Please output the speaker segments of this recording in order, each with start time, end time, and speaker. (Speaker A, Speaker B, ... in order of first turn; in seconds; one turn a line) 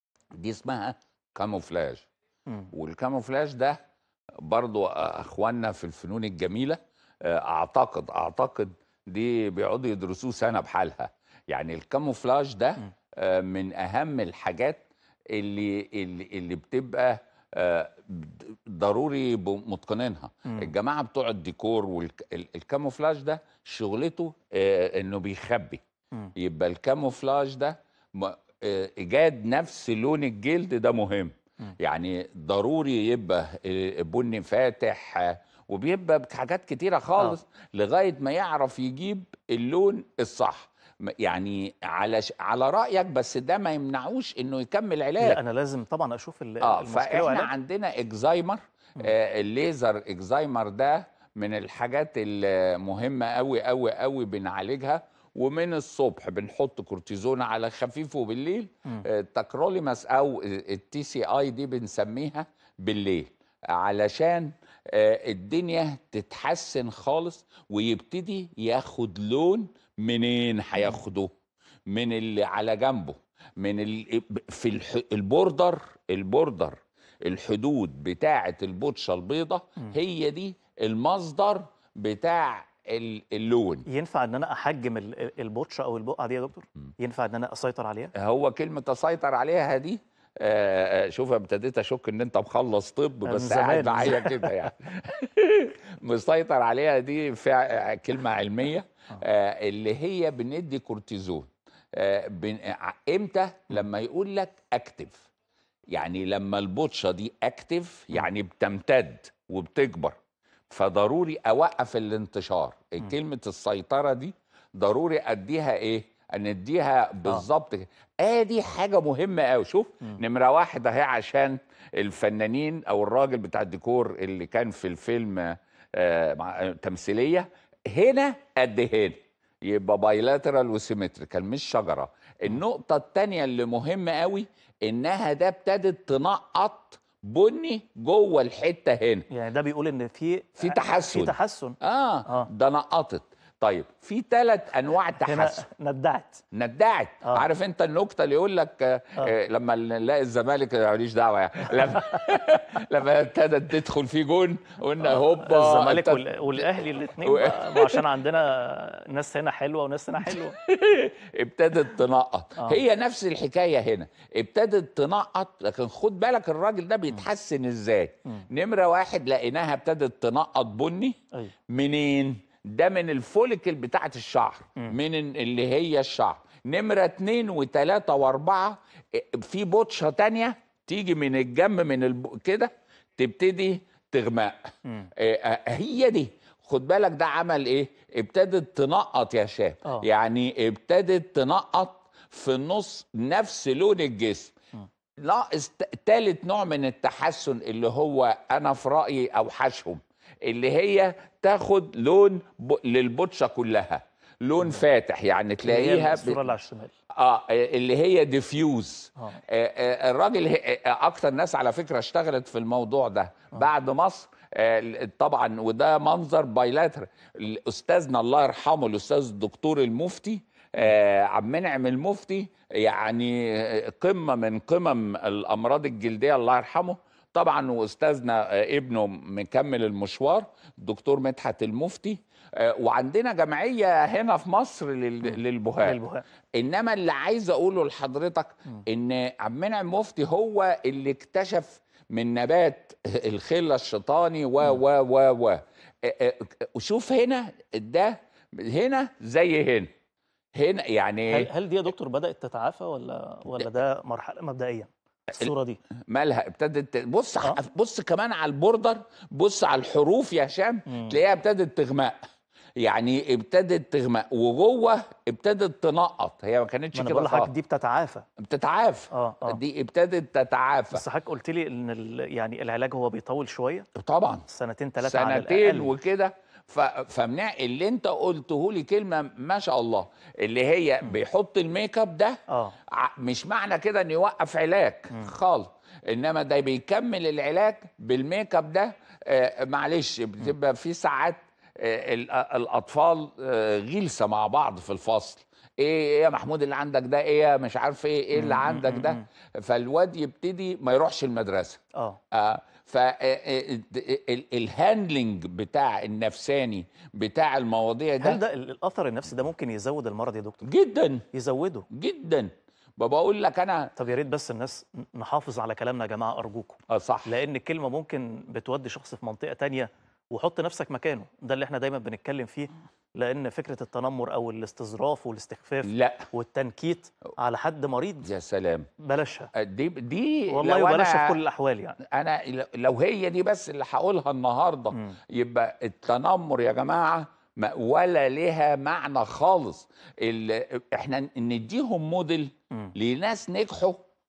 Speaker A: 0.3-2.1
Speaker A: 2.7-3.8
Speaker A: 4.4-25.8
Speaker A: 26.4-45.4
Speaker B: 45.2-47.5
Speaker A: 46.6-71.3
Speaker A: 71.9-83.9
Speaker B: 83.9-88.1
Speaker A: 88.2-105.2
Speaker B: 93.3-94.7
Speaker A: 105.9-110.2
Speaker A: 110.7-139.3
Speaker B: 139.3-142.5
Speaker A: 140.6-145.7
Speaker B: 145.2-146.4
Speaker A: 146.5-156.7
Speaker B: 155.0-160.6
Speaker A: 157.2-158.0
Speaker A: 160.4-171.2
Speaker A: 171.7-184.6
Speaker A: 185.2-194.5
Speaker A: 195.2-206.5
Speaker B: 205.6-206.9
Speaker A: 207.2-236.0
Speaker B: 235.8-236.2
Speaker A: 236.6-249.9
Speaker A: 250.6-251.5
Speaker B: 251.3-255.8
Speaker A: 256.1-262.2
Speaker B: 260.9-261.2
Speaker A: 262.8-267.5
Speaker B: 266.9-268.2
Speaker A: 268.4-271.0
Speaker B: 269.1-269.6
Speaker B: 270.9-273.9
Speaker A: 274.0-274.4
Speaker B: 274.5-275.9
Speaker A: 275.0-282.4
Speaker B: 282.5-282.8
Speaker A: 282.9-301.8
Speaker B: 298.4-299.2
Speaker A: 302.3-308.4
Speaker B: 308.2-310.6
Speaker A: 310.6-311.2
Speaker B: 311.3-311.9
Speaker A: 311.9-313.9
Speaker B: 313.9-328.3
Speaker A: 316.9-317.4
Speaker A: 325.9-326.3
Speaker A: 328.2-328.9
Speaker B: 329.0-329.5
Speaker A: 329.5-331.3
Speaker B: 330.5-332.0
Speaker A: 332.1-344.0